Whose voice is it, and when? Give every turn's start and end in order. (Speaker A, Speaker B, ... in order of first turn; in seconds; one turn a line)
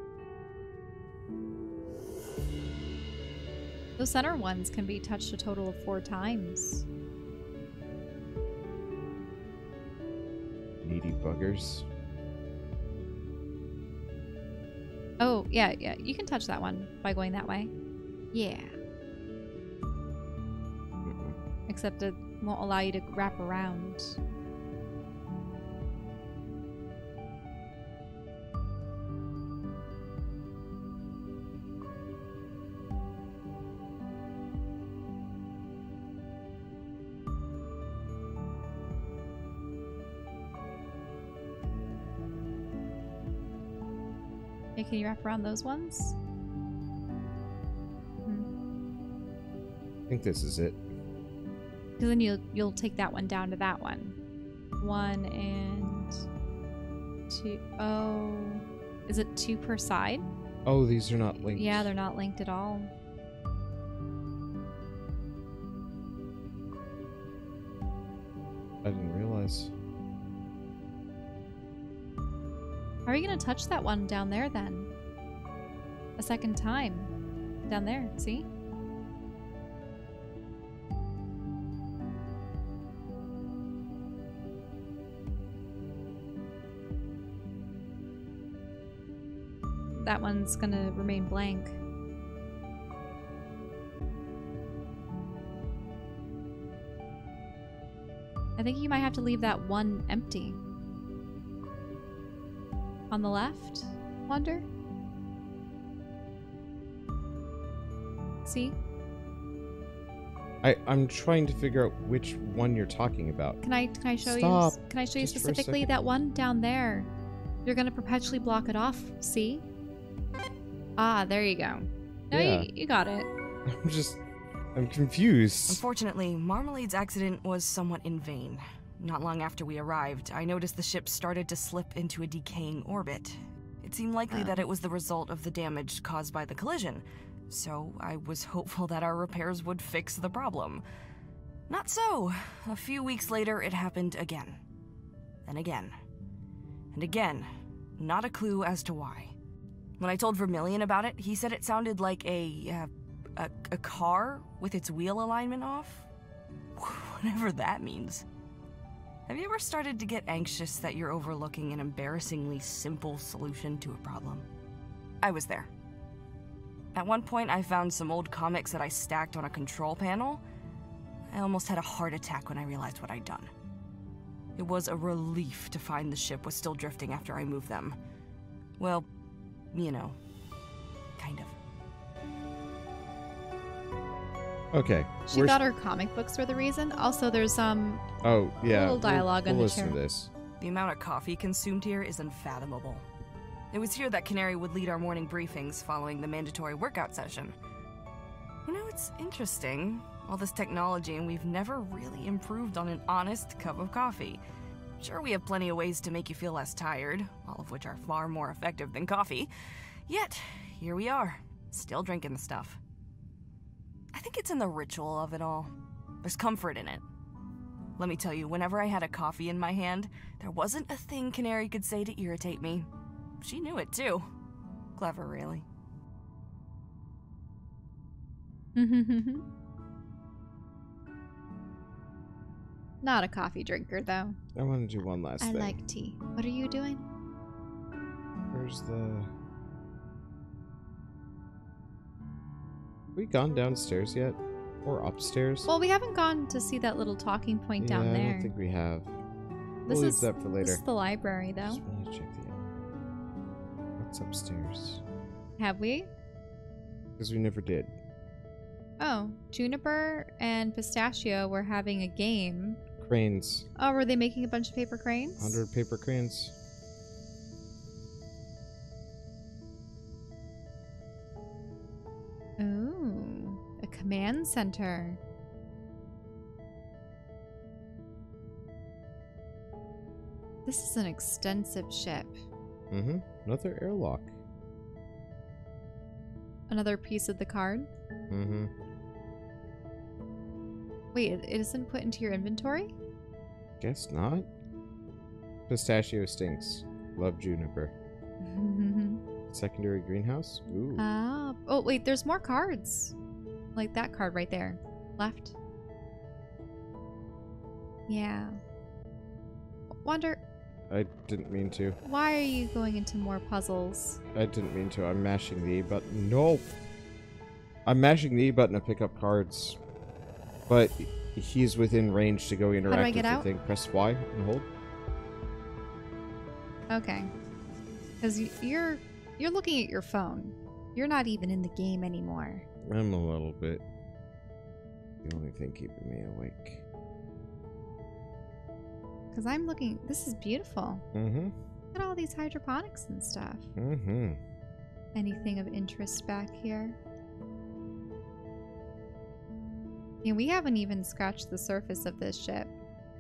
Speaker A: 4.0-6.9
Speaker B: 10.8-11.9
Speaker A: 15.2-17.7
Speaker A: 18.3-18.8
Speaker B: 21.0-21.4
Speaker A: 21.7-24.2
Speaker A: 44.8-46.2
Speaker A: 48.2-48.5
Speaker B: 50.1-50.8
Speaker A: 52.0-54.2
Speaker A: 54.8-56.2
Speaker A: 57.3-60.3
Speaker B: 60.6-61.9
Speaker A: 61.5-62.9
Speaker B: 68.8-69.7
Speaker A: 73.1-74.9
Speaker A: 76.2-77.1
Speaker A: 77.7-78.5
Speaker A: 90.0-91.8
Speaker A: 98.6-100.6
Speaker A: 103.1-104.7
Speaker A: 108.5-108.8
Speaker B: 110.6-113.6
Speaker A: 113.6-117.1
Speaker B: 114.2-116.0
Speaker A: 117.7-119.7
Speaker A: 121.0-123.3
Speaker B: 122.3-122.7
Speaker B: 123.7-124.2
Speaker B: 124.8-125.8
Speaker C: 125.7-140.8
Speaker A: 134.3-134.6
Speaker C: 141.7-144.6
Speaker C: 145.5-145.9
Speaker C: 146.9-147.5
Speaker C: 148.0-149.3
Speaker C: 150.0-156.1
Speaker C: 156.8-158.2
Speaker C: 159.3-164.5
Speaker C: 165.2-165.7
Speaker C: 166.9-170.4
Speaker C: 171.3-173.5
Speaker C: 174.6-178.0
Speaker C: 178.8-179.1
Speaker C: 179.7-180.2
Speaker C: 181.2-181.6
Speaker B: 184.7-185.6
Speaker A: 185.3-188.0
Speaker B: 188.2-190.3
Speaker A: 188.6-190.0
Speaker C: 190.6-193.1
Speaker C: 193.7-197.5
Speaker C: 198.7-204.4
Speaker C: 205.0-209.5
Speaker C: 210.1-212.8
Speaker C: 214.1-215.7
Speaker C: 216.2-217.0
Speaker C: 218.0-222.9
Speaker C: 223.4-224.3
Speaker C: 225.0-225.7
Speaker A: 228.8-229.4
Speaker A: 233.0-234.4
Speaker B: 234.6-235.8
Speaker A: 235.4-237.1
Speaker B: 238.5-239.3
Speaker B: 243.2-245.7
Speaker A: 245.7-248.5
Speaker B: 247.8-249.1
Speaker A: 249.9-251.8
Speaker B: 249.9-250.8
Speaker B: 251.6-252.6
Speaker B: 254.0-255.0
Speaker A: 255.6-256.1
Speaker B: 257.2-257.9
Speaker A: 259.0-262.8
Speaker B: 263.0-263.7
Speaker A: 263.8-265.6
Speaker B: 265.4-266.5
Speaker A: 272.6-275.2
Speaker A: 280.7-282.4
Speaker B: 282.9-284.3
Speaker A: 286.7-287.9
Speaker B: 288.3-288.7
Speaker A: 291.1-292.9
Speaker B: 293.8-294.5
Speaker B: 295.7-297.9
Speaker A: 298.4-299.2
Speaker B: 299.5-301.0
Speaker A: 301.0-303.1
Speaker A: 303.8-305.6
Speaker A: 308.1-308.6
Speaker A: 310.0-310.4
Speaker B: 310.9-312.0
Speaker A: 312.0-314.2
Speaker B: 314.3-316.7
Speaker B: 317.9-319.8
Speaker B: 320.7-324.7
Speaker A: 322.9-323.5
Speaker A: 326.9-327.3
Speaker A: 328.2-332.6
Speaker B: 332.9-333.8
Speaker B: 335.2-336.8
Speaker A: 339.3-341.0
Speaker B: 341.1-341.6
Speaker A: 341.9-343.7
Speaker B: 343.8-344.4
Speaker A: 345.1-347.0
Speaker A: 350.2-352.8